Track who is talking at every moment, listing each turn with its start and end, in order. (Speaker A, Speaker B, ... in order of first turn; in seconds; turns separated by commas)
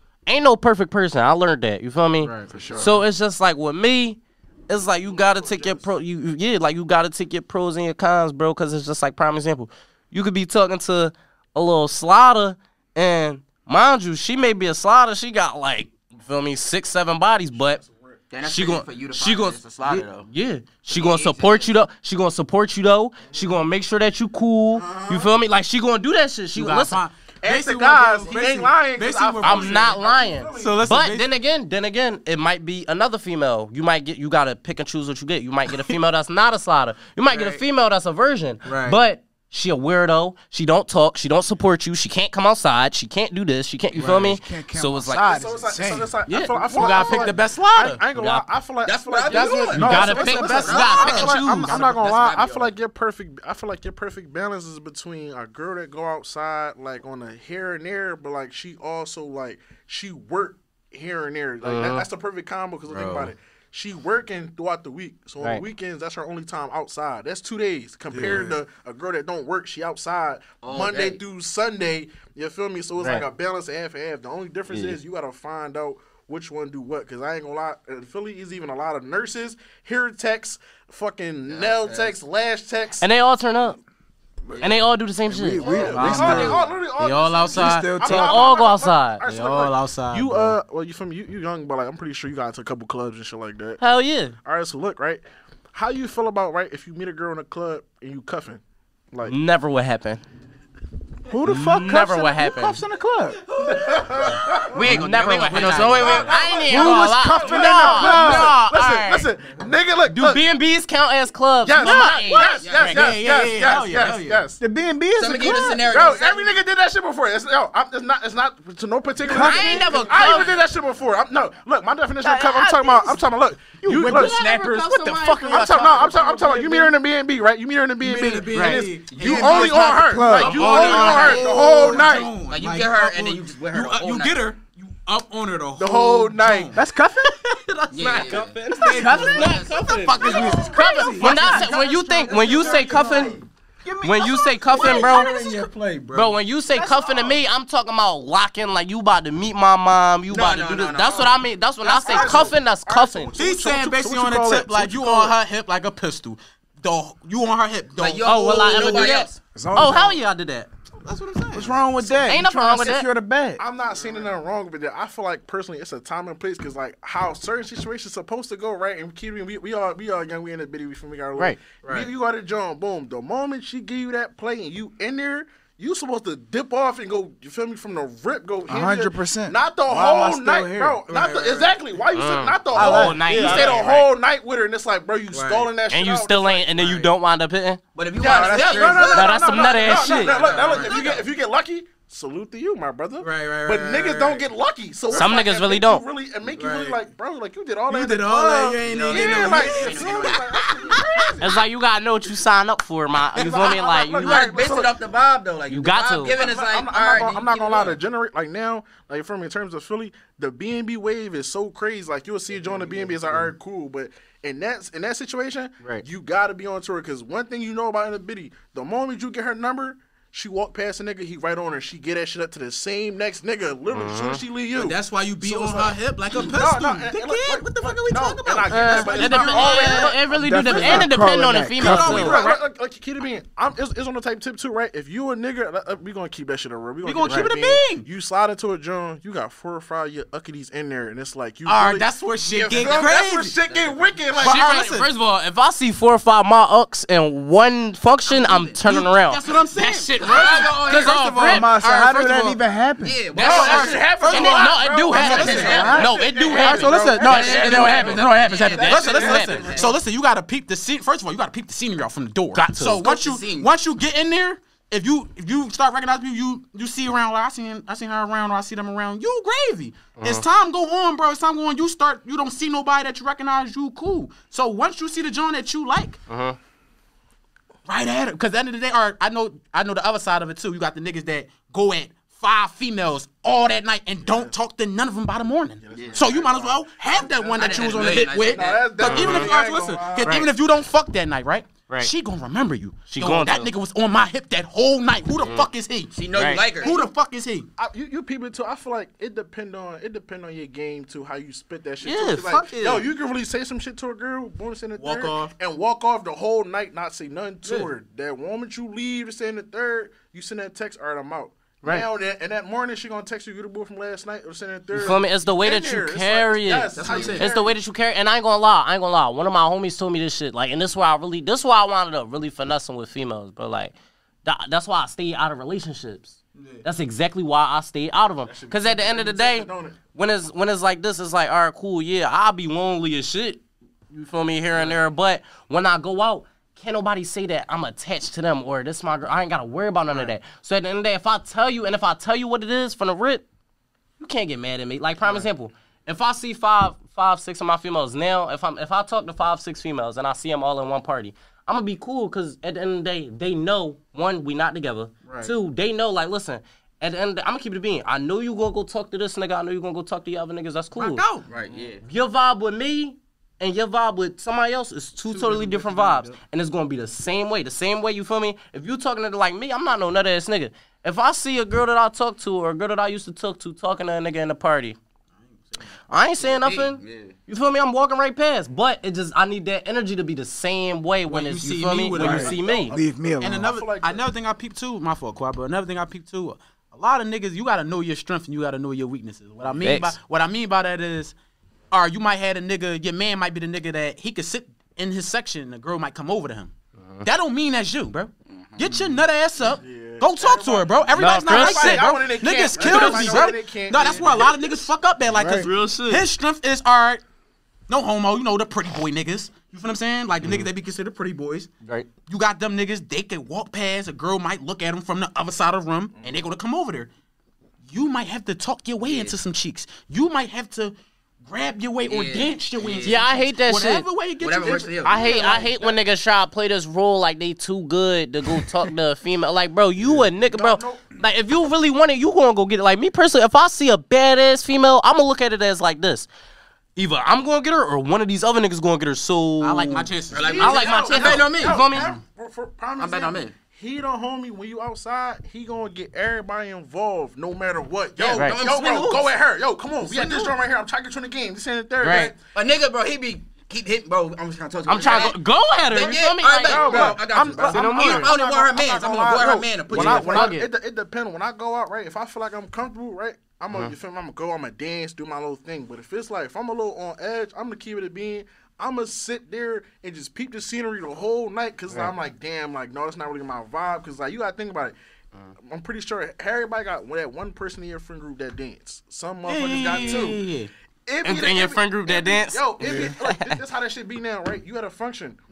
Speaker A: 0.3-17.8, Speaker B: 2.2-2.5, Speaker C: 2.5-3.0, Speaker D: 2.5-3.0, Speaker D: 4.8-5.9, Speaker D: 17.5-18.2, Speaker E: 18.3-20.3, Speaker A: 18.4-27.0, Speaker E: 20.9-21.7, Speaker D: 23.2-23.6, Speaker D: 24.7-25.3, Speaker B: 26.5-29.9, Speaker D: 27.4-30.8, Speaker A: 29.4-45.3, Speaker B: 30.5-31.3, Speaker B: 37.3-37.6, Speaker B: 38.6-39.0, Speaker C: 44.0-46.1, Speaker B: 44.0-44.4, Speaker D: 45.1-83.1, Speaker B: 45.8-48.0, Speaker A: 46.3-46.6, Speaker A: 48.1-48.5, Speaker E: 48.8-52.7, Speaker B: 49.3-51.9, Speaker A: 49.8-51.7, Speaker A: 61.6-62.0, Speaker C: 68.1-68.6, Speaker E: 70.6-71.2, Speaker A: 73.0-73.2, Speaker A: 74.7-75.0, Speaker E: 81.5-82.2, Speaker A: 83.0-83.8, Speaker A: 84.6-85.7, Speaker C: 85.2-86.7, Speaker D: 85.6-93.8, Speaker B: 85.8-88.0, Speaker C: 87.5-88.5, Speaker A: 88.0-89.2, Speaker B: 89.2-90.6, Speaker A: 93.8-94.3, Speaker D: 94.4-98.6, Speaker D: 99.1-99.4, Speaker A: 99.2-100.2, Speaker C: 101.3-103.4, Speaker A: 101.5-102.8, Speaker B: 103.5-104.7, Speaker D: 103.7-104.6, Speaker E: 104.6-107.1, Speaker A: 104.8-109.3, Speaker B: 105.5-106.6, Speaker D: 105.5-110.4, Speaker C: 107.9-108.4, Speaker E: 108.1-108.5, Speaker A: 110.1-113.2, Speaker D: 111.6-114.6, Speaker E: 112.6-113.0, Speaker B: 112.7-115.9, Speaker E: 115.2-116.5, Speaker D: 115.5-124.4, Speaker B: 119.2-120.5, Speaker A: 119.3-120.6, Speaker A: 122.6-123.2, Speaker B: 123.8-126.0, Speaker A: 124.0-126.6, Speaker D: 125.5-132.3, Speaker B: 128.0-136.8, Speaker A: 128.5-128.8, Speaker C: 129.1-132.0, Speaker A: 130.4-131.5, Speaker E: 130.9-134.4, Speaker D: 135.8-136.7, Speaker C: 136.7-137.3, Speaker B: 137.3-147.3, Speaker E: 137.9-140.7, Speaker A: 138.0-143.4, Speaker C: 140.2-141.4, Speaker D: 140.4-141.2, Speaker E: 142.5-143.0, Speaker A: 144.0-145.3, Speaker D: 144.7-145.5, Speaker A: 146.1-153.3, Speaker E: 150.3-151.4, Speaker D: 151.8-155.4, Speaker B: 153.3-158.8, Speaker E: 158.0-159.4, Speaker A: 158.2-160.7, Speaker C: 159.5-160.2, Speaker B: 161.0-161.8, Speaker C: 161.5-163.6, Speaker A: 162.2-163.1, Speaker D: 163.6-187.0, Speaker B: 171.8-172.1, Speaker C: 178.7-181.0, Speaker B: 181.1-181.8, Speaker A: 182.1-184.1, Speaker B: 182.8-183.9, Speaker B: 185.3-185.7, Speaker A: 185.9-187.8, Speaker E: 187.9-191.2, Speaker D: 188.2-201.6, Speaker B: 188.3-189.1, Speaker A: 189.1-190.3, Speaker B: 190.3-191.1, Speaker B: 193.2-194.5, Speaker A: 195.1-196.0, Speaker B: 196.6-197.0, Speaker B: 197.9-200.6, Speaker E: 198.8-201.0, Speaker A: 201.4-204.7, Speaker D: 203.3-205.0, Speaker E: 204.2-208.0, Speaker A: 205.7-206.4, Speaker D: 206.3-231.1, Speaker B: 212.5-213.5, Speaker A: 223.9-224.4, Speaker B: 224.7-230.1, Speaker A: 228.7-232.5, Speaker C: 230.3-232.4, Speaker B: 230.7-231.1, Speaker B: 231.8-232.6, Speaker D: 231.8-244.8, Speaker B: 237.0-238.0, Speaker B: 241.7-243.5, Speaker E: 242.7-244.1, Speaker B: 244.3-245.1, Speaker A: 244.4-251.7, Speaker E: 248.3-248.8, Speaker B: 248.8-252.6, Speaker E: 250.2-251.6, Speaker C: 251.4-253.1, Speaker E: 253.0-256.7, Speaker B: 253.3-276.2, Speaker D: 253.3-259.9, Speaker A: 254.3-259.7, Speaker C: 255.7-256.1, Speaker C: 256.6-257.5, Speaker E: 257.2-259.9, Speaker A: 262.5-263.0, Speaker E: 262.9-263.7, Speaker A: 270.2-270.4, Speaker A: 276.3-276.6, Speaker B: 277.9-296.1, Speaker D: 284.2-284.6, Speaker D: 285.9-290.6, Speaker E: 285.9-286.3, Speaker E: 287.6-289.5, Speaker A: 289.1-289.5, Speaker A: 290.2-290.5, Speaker A: 293.1-293.7, Speaker E: 293.2-293.6, Speaker A: 295.4-295.7, Speaker E: 296.1-296.9, Speaker A: 296.3-296.6, Speaker B: 296.8-297.7, Speaker D: 296.8-297.1, Speaker D: 297.8-317.7, Speaker A: 302.0-303.0, Speaker B: 305.0-305.5, Speaker B: 307.6-307.9, Speaker A: 314.9-323.9, Speaker E: 316.9-317.6, Speaker A: 324.4-343.4, Speaker B: 326.6-326.8, Speaker D: 328.4-330.0, Speaker A: 344.2-361.2, Speaker B: 355.2-355.5, Speaker E: 360.9-362.0, Speaker A: 362.0-375.0, Speaker B: 365.3-366.4, Speaker B: 375.4-375.9, Speaker A: 376.1-382.9, Speaker E: 376.4-377.3, Speaker B: 381.3-382.6, Speaker C: 382.2-383.7, Speaker D: 382.3-384.3, Speaker B: 383.4-391.3, Speaker A: 389.8-390.1, Speaker B: 391.9-407.2, Speaker E: 398.5-399.1, Speaker D: 399.6-404.8, Speaker A: 401.2-402.1, Speaker A: 402.8-403.4, Speaker A: 405.3-406.2, Speaker B: 407.9-411.7, Speaker A: 410.4-410.7, Speaker B: 412.2-417.1, Speaker B: 417.9-425.1, Speaker E: 419.0-419.4, Speaker E: 422.0-423.2, Speaker A: 423.0-424.1, Speaker E: 424.4-425.7, Speaker D: 424.6-425.9, Speaker A: 425.0-436.3, Speaker D: 430.1-431.1, Speaker A: 436.9-440.1, Speaker B: 439.6-440.6, Speaker E: 440.3-442.1, Speaker D: 440.4-452.3, Speaker A: 440.6-442.1, Speaker E: 443.0-443.5, Speaker E: 448.2-449.3, Speaker E: 450.0-450.5, Speaker E: 452.0-460.5, Speaker A: 452.0-452.3, Speaker A: 454.9-458.4, Speaker D: 454.9-455.3, Speaker D: 456.6-474.9, Speaker A: 459.9-460.7, Speaker B: 460.0-460.2, Speaker D: 475.6-480.4, Speaker B: 479.4-480.7, Speaker A: 479.9-480.3, Speaker D: 481.1-485.4, Speaker A: 481.2-483.6